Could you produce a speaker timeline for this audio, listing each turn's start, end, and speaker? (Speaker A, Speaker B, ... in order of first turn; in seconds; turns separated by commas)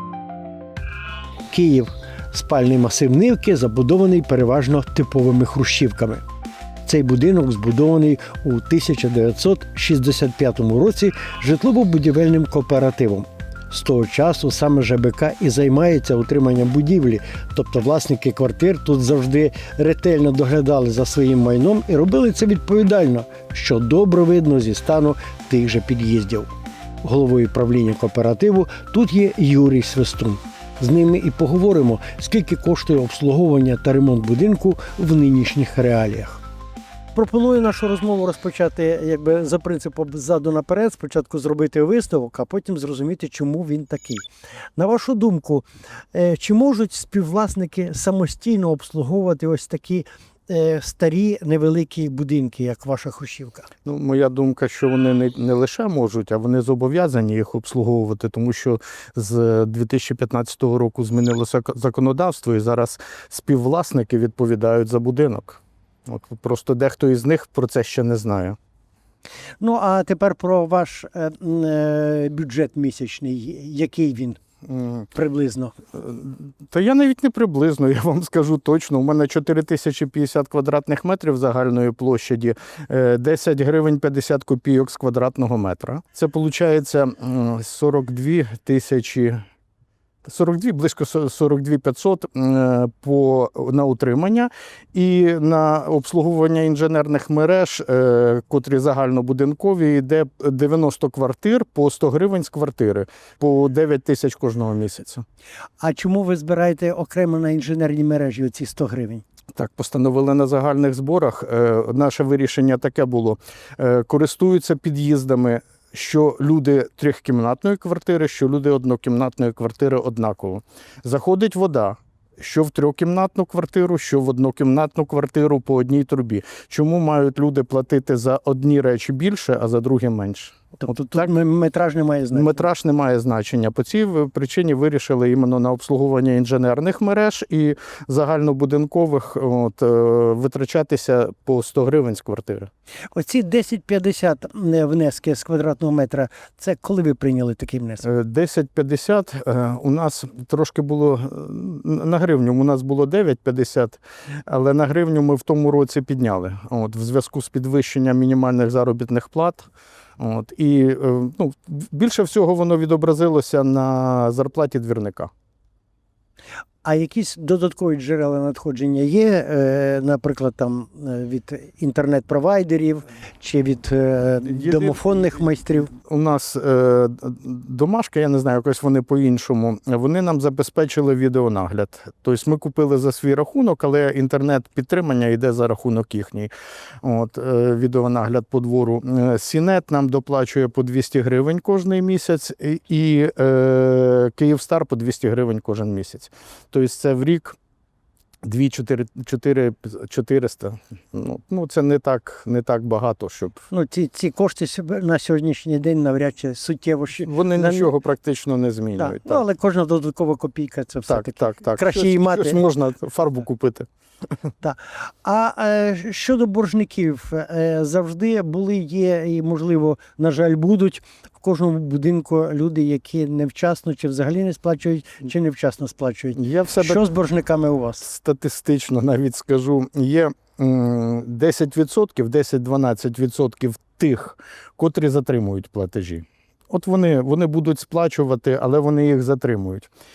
Speaker A: 1.5-6.2, Speaker A: 6.9-26.5, Speaker A: 27.0-36.4, Speaker A: 37.1-53.7, Speaker B: 53.9-68.6, Speaker A: 69.6-74.4, Speaker B: 74.7-75.1, Speaker A: 75.1-75.8, Speaker B: 75.9-89.4, Speaker B: 90.2-105.2, Speaker A: 105.8-109.2, Speaker B: 109.5-131.3, Speaker A: 130.8-132.7, Speaker B: 132.3-142.7, Speaker A: 143.1-148.1, Speaker B: 148.0-159.7, Speaker B: 160.2-165.3, Speaker A: 166.8-175.9, Speaker B: 174.4-175.3, Speaker B: 175.9-186.5, Speaker B: 187.0-197.6, Speaker B: 198.4-203.6, Speaker A: 203.7-207.9, Speaker B: 207.2-209.4, Speaker A: 209.0-212.6, Speaker B: 211.1-213.9, Speaker A: 214.6-228.1, Speaker B: 226.4-227.0, Speaker B: 228.0-239.9